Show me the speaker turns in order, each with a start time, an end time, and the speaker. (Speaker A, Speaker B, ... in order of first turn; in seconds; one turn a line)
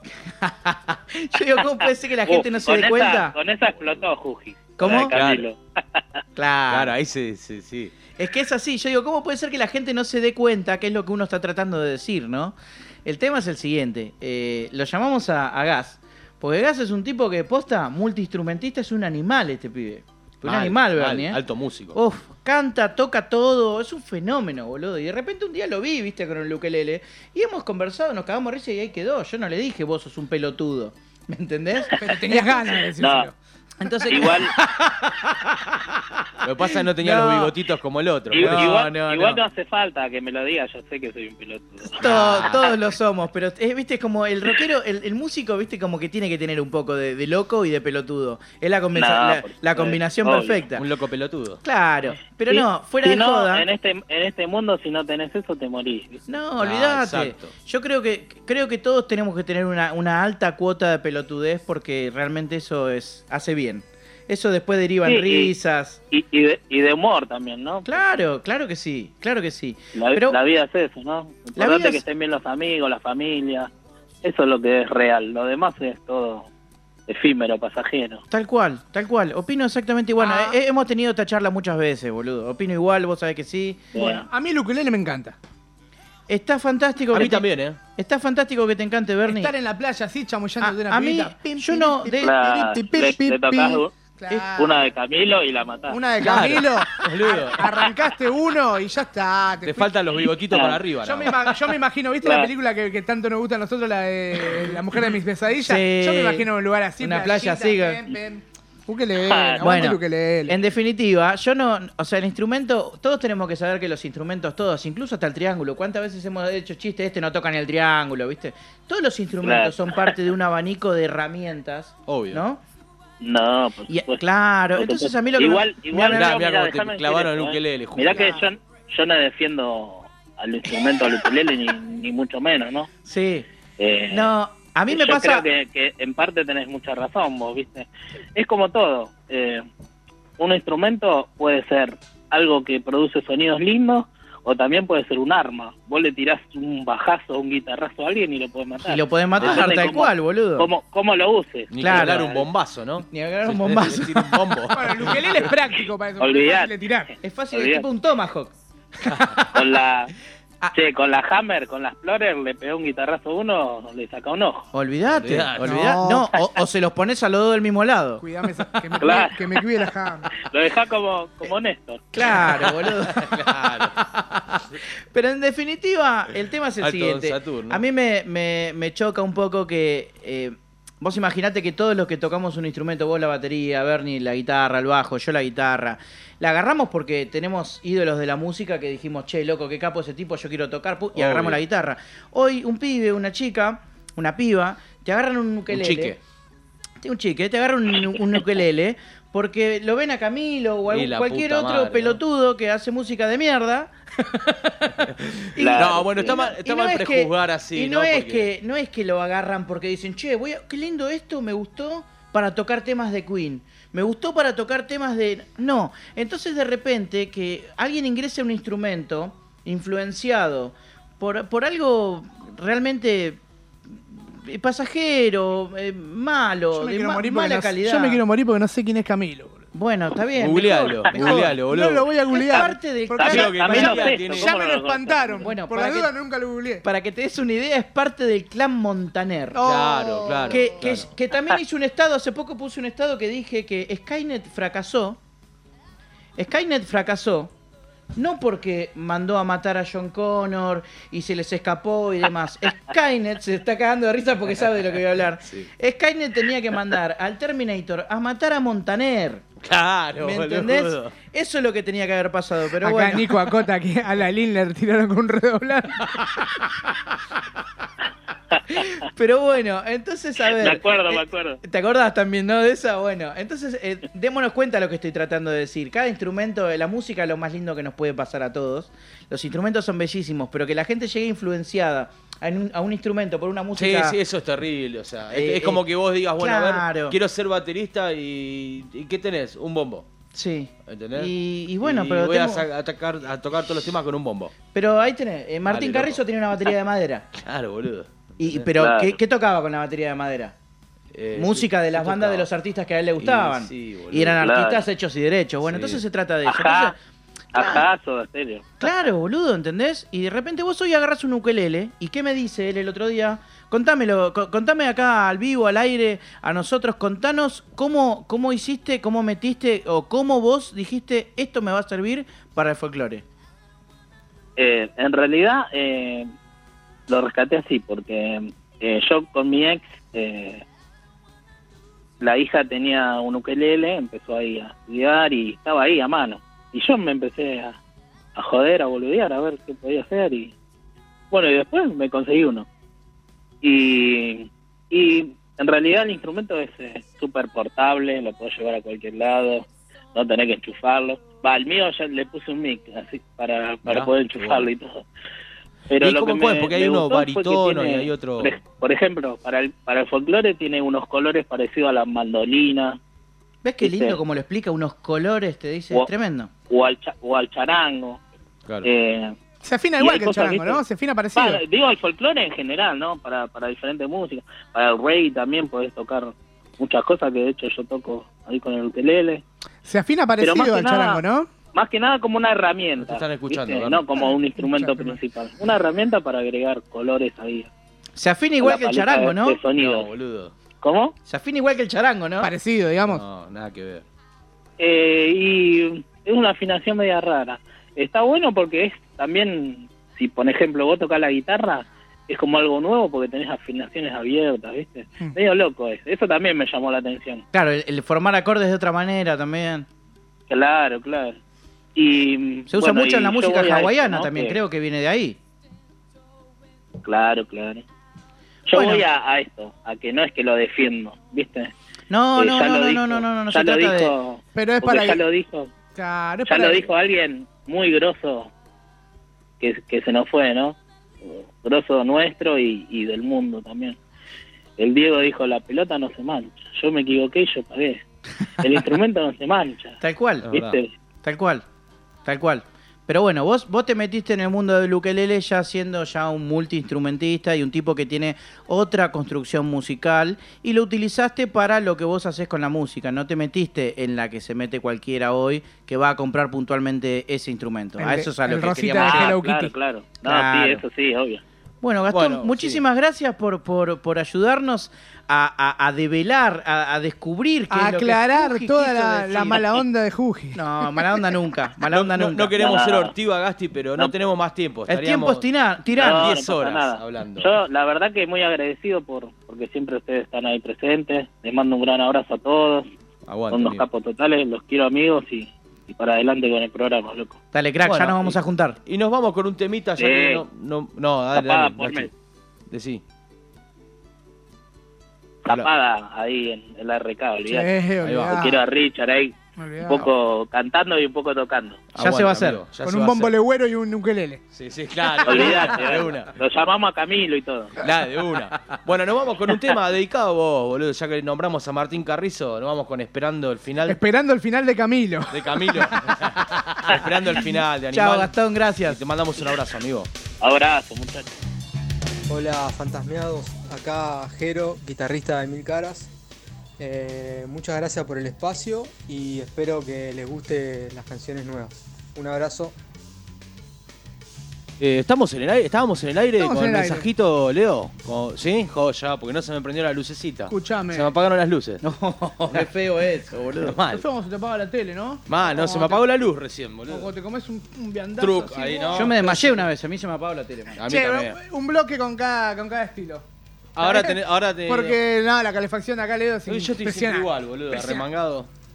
Speaker A: 0.4-3.3
Speaker B: 1.8-6.2
Speaker A: 4.8-5.1
Speaker C: 4.8-5.5
Speaker A: 6.3-6.9
Speaker C: 6.7-7.9
Speaker A: 8.2-21.4
Speaker C: 20.4-22.0
Speaker A: 21.9-32.5
Speaker D: 32.0-33.3
Speaker B: 33.0-33.3
Speaker A: 33.8-34.6
Speaker B: 34.1-34.5
Speaker C: 36.4-38.9
Speaker A: 37.0-37.5
Speaker B: 38.3-42.7
Speaker A: 38.4-39.4
Speaker A: 42.0-50.9
Speaker C: 42.0-42.6
Speaker B: 48.9-50.6
Speaker C: 50.8-51.6
Speaker A: 51.6-53.7
Speaker B: 52.5-56.3
Speaker A: 56.3-66.0
Speaker C: 56.6-57.5
Speaker B: 65.0-65.5
Speaker B: 66.1-68.0
Speaker A: 67.8-70.4
Speaker B: 69.9-73.7
Speaker A: 71.5-72.0
Speaker B: 74.2-76.5
Speaker B: 77.1-78.2
Speaker A: 78.3-83.9
Speaker D: 80.2-80.5
Speaker B: 83.9-84.2
Speaker D: 83.9-85.3
Speaker A: 86.3-89.5
Speaker C: 87.1-87.8
Speaker D: 89.2-94.8
Speaker A: 90.6-92.3
Speaker B: 92.2-93.9
Speaker A: 94.3-94.8
Speaker B: 94.6-96.0
Speaker D: 95.9-110.6
Speaker C: 96.2-97.7
Speaker C: 99.6-101.4
Speaker B: 100.5-100.8
Speaker B: 102.2-102.5
Speaker A: 105.6-106.5
Speaker A: 107.0-108.0
Speaker B: 109.2-109.8
Speaker A: 109.6-122.6
Speaker B: 119.4-120.2
Speaker C: 122.1-122.4
Speaker B: 123.2-132.9
Speaker A: 123.9-126.4
Speaker C: 126.1-128.3
Speaker A: 133.0-133.5
Speaker B: 133.8-134.3
Speaker A: 134.1-135.5
Speaker B: 134.9-139.6
Speaker B: 140.4-152.4
Speaker A: 148.8-150.7
Speaker C: 151.7-155.5
Speaker A: 151.8-152.3
Speaker A: 153.1-154.6
Speaker D: 154.7-157.1
Speaker B: 156.2-156.7
Speaker A: 157.2-158.5
Speaker B: 157.5-157.8
Speaker C: 159.1-159.4
Speaker B: 159.5-160.1
Speaker B: 160.7-164.7
Speaker A: 164.7-168.2
Speaker C: 165.1-165.9
Speaker D: 165.6-166.3
Speaker D: 168.2-170.3
Speaker B: 169.0-169.5
Speaker B: 170.4-172.0
Speaker A: 172.1-196.2
Speaker C: 172.4-174.0
Speaker C: 176.8-177.8
Speaker C: 191.1-191.6
Speaker C: 195.7-196.2
Speaker A: 197.0-203.9
Speaker C: 200.9-202.2
Speaker C: 205.0-208.5
Speaker A: 205.6-223.4
Speaker B: 205.6-206.4
Speaker A: 224.4-228.2
Speaker D: 226.7-229.6
Speaker A: 229.7-231.6
Speaker C: 230.4-232.1
Speaker D: 231.1-236.8
Speaker A: 232.3-234.0
Speaker B: 233.2-235.4
Speaker C: 233.2-234.5
Speaker A: 235.4-236.1
Speaker A: 236.8-239.7
Speaker D: 239.5-241.0
Speaker C: 239.6-241.1
Speaker A: 240.5-245.2
Speaker A: 246.4-247.5
Speaker A: 248.1-259.4
Speaker C: 259.6-261.1
Speaker A: 260.2-263.5
Speaker D: 262.8-266.2
Speaker A: 268.7-284.2
Speaker B: 270.6-271.6
Speaker C: 283.7-290.1
Speaker A: 285.3-285.8
Speaker A: 286.4-287.2
Speaker A: 290.3-292.6
Speaker C: 290.9-291.3
Speaker C: 291.8-294.5
Speaker A: 294.7-297.3
Speaker C: 295.7-296.2
Speaker C: 297.4-298.7
Speaker A: 298.4-300.5
Speaker B: 298.8-299.2
Speaker C: 301.1-302.5
Speaker A: 301.3-307.0
Speaker C: 303.2-304.4
Speaker B: 304.4-304.9
Speaker C: 305.6-306.0
Speaker B: 306.4-306.9
Speaker B: 307.5-308.9
Speaker A: 307.6-307.9
Speaker A: 308.8-323.2
Speaker B: 324.6-326.3
Speaker B: 327.1-330.6
Speaker B: 332.2-337.8
Speaker B: 338.4-340.5
Speaker B: 341.3-342.6
Speaker B: 343.6-355.0
Speaker C: 353.9-354.7
Speaker B: 355.9-363.0
Speaker C: 356.0-358.6
Speaker A: 363.6-366.5
Speaker B: 363.8-364.2
Speaker B: 366.7-368.2
Speaker B: 368.8-369.4
Speaker D: 369.6-371.6
Speaker B: 370.0-370.8
Speaker B: 371.3-379.4
Speaker D: 379.8-381.5
Speaker B: 380.4-381.2
Speaker B: 381.7-387.7
Speaker C: 383.0-384.2
Speaker D: 384.6-385.2
Speaker A: 388.1-389.6
Speaker B: 388.6-390.1
Speaker C: 389.8-390.5
Speaker B: 390.8-391.1
Speaker A: 391.2-392.5
Speaker D: 392.4-393.2
Speaker C: 393.0-394.0
Speaker B: 394.8-407.4
Speaker A: 407.5-409.9
Speaker B: 410.5-411.4
Speaker B: 411.9-414.6
Speaker A: 412.7-415.4
Speaker B: 417.0-417.8
Speaker B: 418.7-421.7
Speaker A: 418.7-419.0
Speaker A: 422.1-424.1
Speaker B: 422.4-425.7
Speaker D: 424.5-425.2
Speaker D: 425.9-426.9
Speaker B: 426.5-428.5
Speaker B: 429.6-434.0
Speaker B: 434.8-438.0
Speaker B: 438.6-440.0
Speaker A: 440.0-440.5
Speaker C: 440.5-440.8
Speaker B: 440.5-440.9
Speaker A: 441.2-441.6
Speaker A: 442.2-459.3
Speaker D: 458.0-459.8
Speaker B: 459.0-461.4
Speaker A: 460.2-460.8
Speaker A: 461.8-469.8
Speaker C: 462.1-462.8
Speaker D: 467.7-471.2
Speaker A: 470.5-472.8
Speaker C: 471.9-475.4
Speaker B: 472.6-473.1
Speaker A: 474.9-476.3
Speaker B: 475.9-482.9
Speaker C: 476.0-477.5
Speaker C: 483.3-483.9
Speaker B: 483.5-487.4
Speaker A: 487.5-488.8
Speaker C: 487.8-492.1
Speaker B: 490.0-490.4
Speaker B: 491.3-492.1
Speaker C: 492.7-493.0
Speaker B: 495.4-497.7
Speaker D: 497.5-498.6
Speaker C: 498.0-498.5
Speaker B: 498.3-501.9
Speaker D: 499.6-500.1
Speaker C: 501.9-503.3
Speaker A: 502.0-502.6
Speaker D: 502.8-504.4
Speaker C: 504.5-506.3
Speaker D: 505.0-506.0
Speaker B: 505.2-507.8
Speaker C: 507.8-514.0
Speaker D: 513.9-516.0
Speaker C: 515.3-518.3
Speaker A: 517.9-519.0
Speaker C: 518.8-520.1
Speaker B: 520.4-521.3
Speaker E: 522.3-526.1
Speaker E: 526.8-532.7
Speaker C: 534.8-541.8
Speaker D: 536.4-537.1
Speaker D: 540.5-541.1
Speaker A: 541.8-543.7
Speaker C: 543.3-544.0
Speaker D: 543.9-546.0
Speaker C: 545.3-547.1
Speaker D: 546.9-549.5
Speaker C: 548.2-549.5
Speaker A: 548.9-550.8
Speaker C: 550.8-551.4
Speaker D: 550.8-553.2
Speaker C: 553.7-555.0
Speaker D: 553.8-558.0
Speaker C: 556.5-558.5